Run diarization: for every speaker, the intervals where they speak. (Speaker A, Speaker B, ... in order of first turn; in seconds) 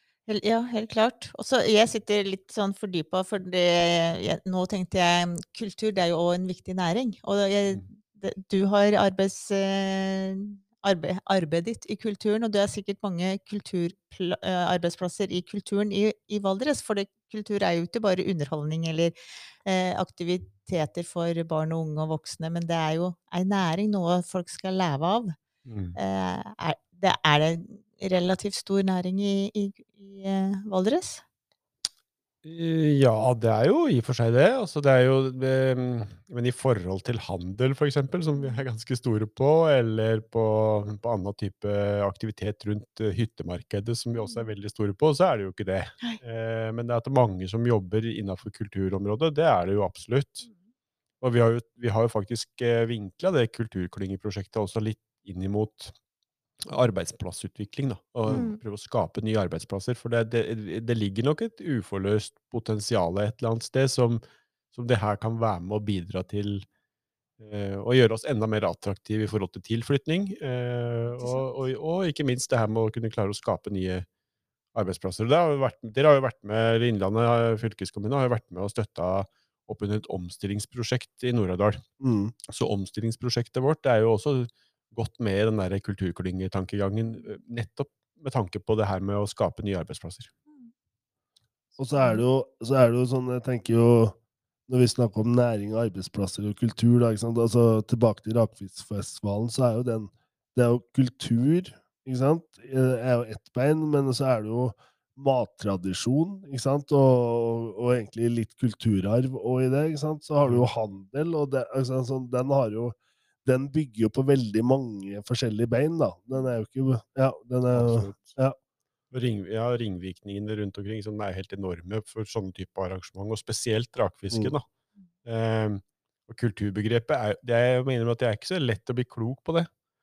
Speaker A: 0.3-25.4, 26.0-31.2, 58.3-58.6, 71.2-71.5
Speaker B: 25.7-26.0, 32.4-50.5, 51.2-55.9, 56.7-64.2, 64.7-66.7, 67.4-74.1, 74.7-81.8, 82.5-90.3, 117.7-118.4, 119.1-124.7, 125.2-129.7
Speaker C: 82.0-82.3, 91.8-94.2, 94.7-118.6